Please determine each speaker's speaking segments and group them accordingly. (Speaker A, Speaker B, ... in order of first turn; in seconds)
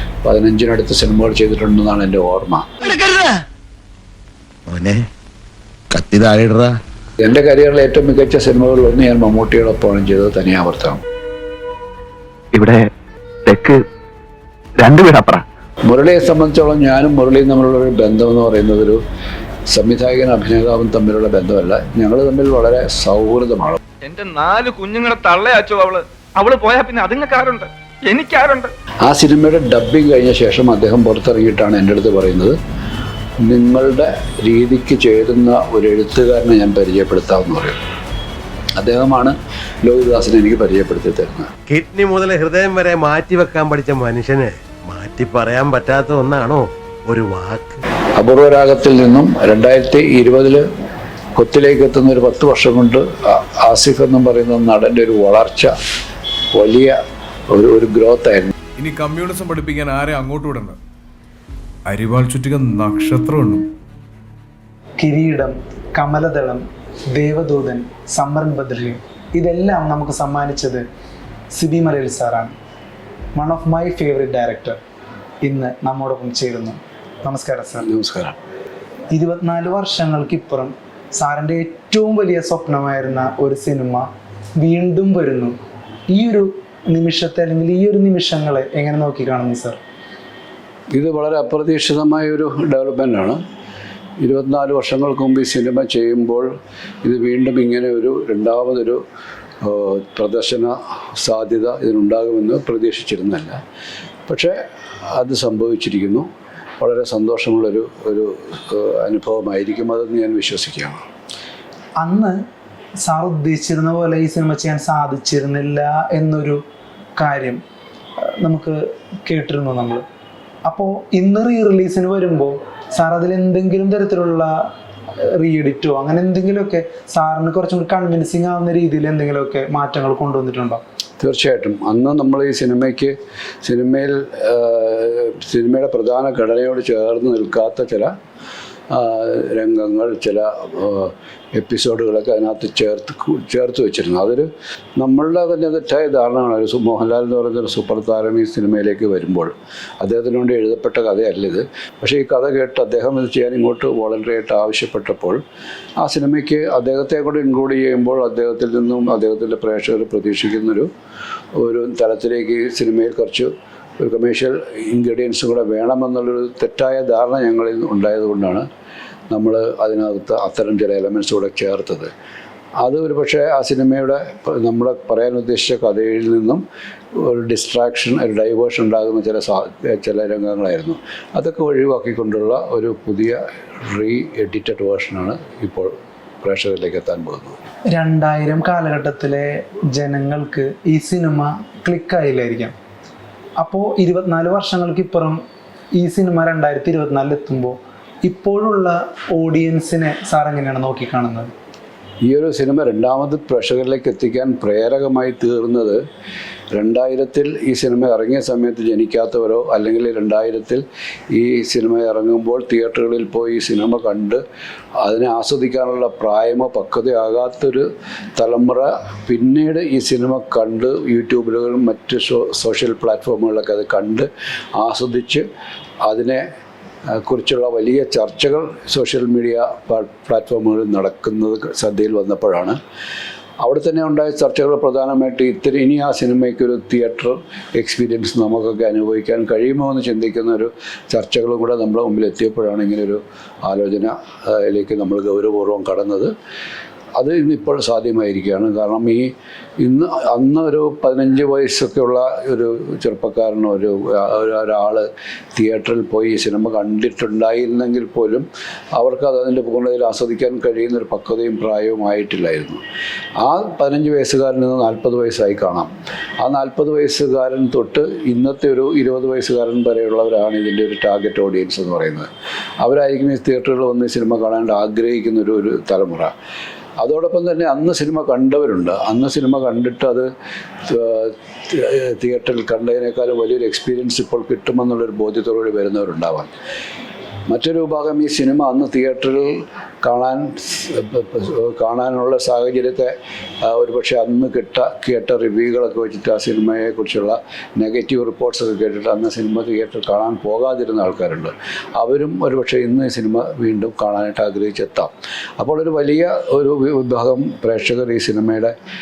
Speaker A: 0.2-2.7, 7.2-11.0, 15.8-19.0, 19.7-23.8, 29.1-32.6, 33.4-37.8, 38.8-41.5, 48.2-50.7, 51.4-55.7, 56.5-57.0, 57.5-58.5, 77.8-78.4, 90.9-93.4, 94.2-99.0, 99.6-103.6, 104.3-106.3, 106.8-111.0, 131.2-138.2, 138.9-155.4, 156.0-160.9, 161.6-168.7, 169.3-172.1, 172.8-176.6, 177.2-187.6, 202.2-206.0, 206.8-214.4, 215.0-225.5, 226.1-226.5, 227.1-232.8, 233.6-246.3, 247.2-262.8, 263.4-265.9, 266.4-272.3, 272.8-276.3, 277.0-280.3, 280.9-286.5, 287.5-308.8
Speaker B: 2.8-3.4, 6.0-6.7, 12.5-12.9, 13.5-13.8, 14.8-15.4
Speaker C: 24.0-28.7
Speaker D: 41.7-47.8
Speaker E: 58.8-60.8, 61.9-63.7
Speaker F: 65.0-70.9, 71.5-72.5, 73.3-74.8, 75.4-77.9, 79.1-85.6, 86.1-89.8, 112.0-112.4, 113.0-116.6, 117.2-117.6, 118.2-120.0, 120.7-130.8, 187.9-192.8, 193.6-195.4, 196.0-201.5